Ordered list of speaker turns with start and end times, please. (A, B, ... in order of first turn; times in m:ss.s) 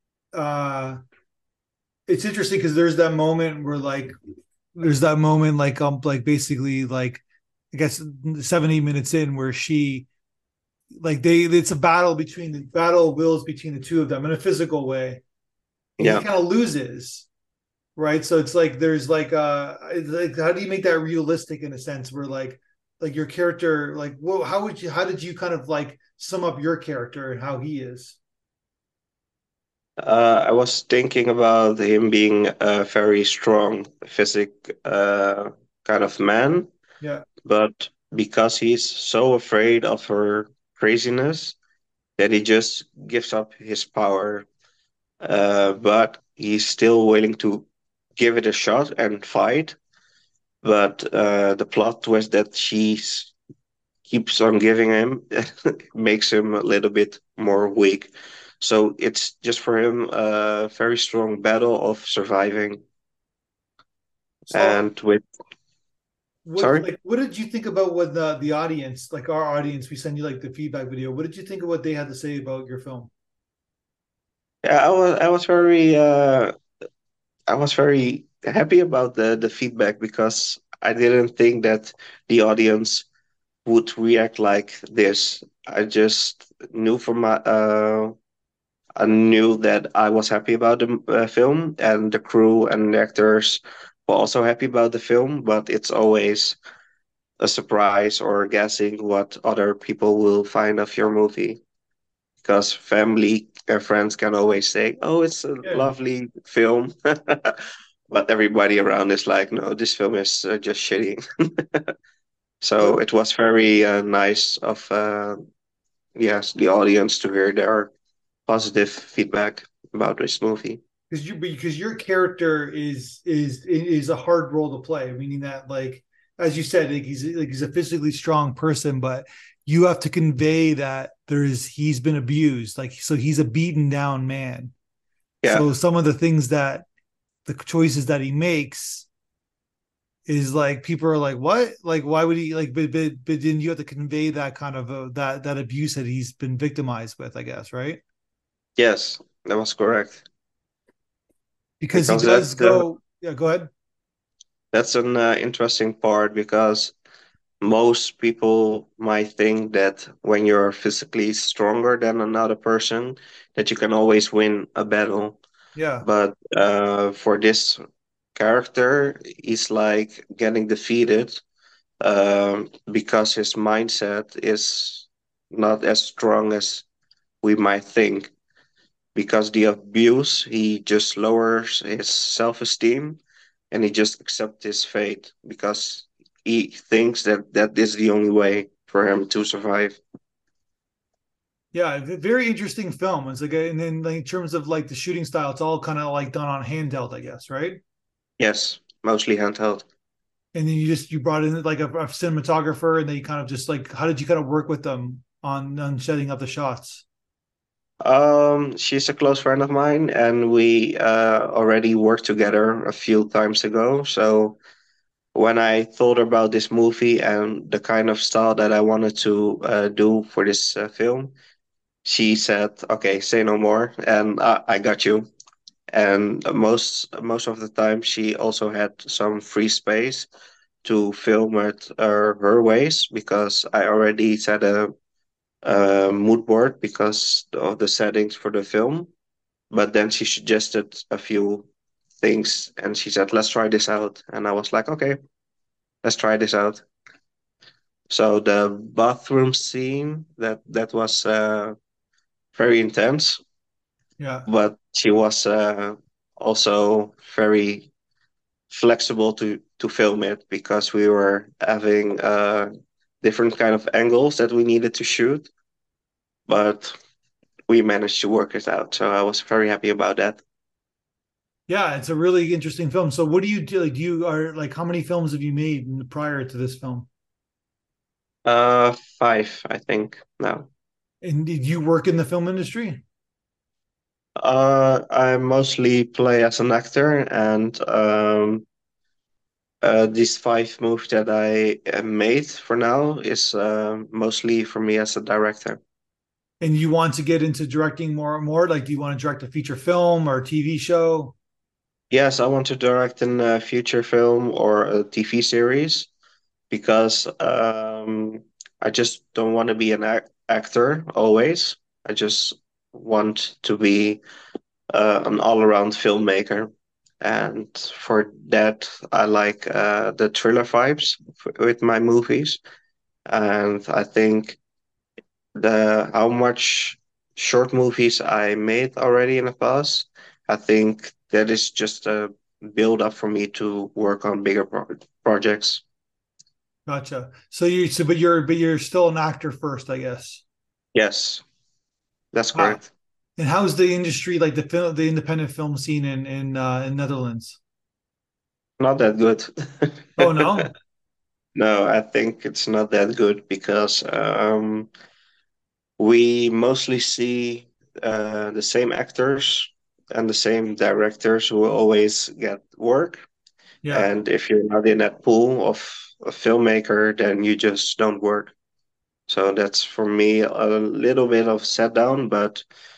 0:00.3-0:01.0 A
0:02.1-0:04.2 A
0:04.8-0:10.1 A
0:11.0-0:15.2 A
0:16.0-0:16.3 B
0:16.0-0:17.3 A
0:18.0-0:28.2 A
0:30.0-0:36.7 B
0:37.4-0:41.6 B
0:42.2-0:44.5 B
0:45.2-0:47.7 B
0:48.2-0:49.8 B
0:50.6-0:53.3 B
0:54.1-1:02.8 B
1:04.5-1:04.8 A
1:04.5-1:05.2 B
1:06.4-1:13.1 A
1:06.6-1:06.9 B
1:14.6-1:16.5 B
1:17.5-1:23.1 B
1:23.6-1:28.2 B
1:29.0-1:36.6 B
1:37.4-1:41.6 B
1:42.4-1:51.9 B
1:52.6-1:55.4 B
1:56.2-1:57.9 B
1:58.5-2:00.8 B
2:01.1-2:14.7 A
2:15.5-2:16.9 A
2:17.4-2:19.1 A
2:20.3-2:28.0 A
2:28.8-2:30.2 B
2:31.8-2:33.7 A
2:31.9-2:32.8 B
2:34.7-2:36.9 B
2:37.6-2:45.4 B
2:45.8-2:46.0 A
2:46.0-2:47.8 B
2:48.4-2:51.4 B
2:52.0-2:56.8 B
2:57.4-2:58.3 B
2:59.2-3:03.2 B
3:03.7-3:10.0 B
3:11.7-3:17.8 A
3:18.4-3:19.8 B
3:20.5-3:27.0 A
3:28.0-3:34.6 B
3:35.4-3:41.3 B
3:42.0-3:45.3 B
3:45.9-3:50.3 B
3:50.8-3:54.9 B
3:55.6-3:59.1 B
3:59.7-4:01.7 B
4:02.2-4:05.2 B
4:06.0-4:06.8 B
4:08.1-4:11.8 B
4:12.6-4:13.4 B
4:14.2-4:14.5 A
4:14.5-4:17.9 B
4:18.7-4:22.7 B
4:23.2-4:25.5 B
4:26.5-4:26.9 B
4:27.7-4:30.4 B
4:31.7-4:37.1 A
4:38.5-4:40.7 B
4:41.2-4:43.0 A
4:44.4-4:48.6 B
4:49.8-4:55.8 B
4:56.6-5:01.4 A
5:02.1-5:06.1 B
5:06.7-5:14.2 B
5:14.9-5:22.6 B
5:23.3-5:24.6 B
5:25.6-5:35.8 B
5:36.9-5:40.4 A
5:41.0-5:41.4 B
5:42.3-5:42.9 B
5:42.5-5:42.8 A
5:43.4-5:47.6 A
5:48.8-5:50.6 B
5:50.2-5:50.7 A
5:51.6-5:54.9 B
5:56.0-6:03.3 B
6:03.9-6:08.5 B
6:09.3-6:12.6 B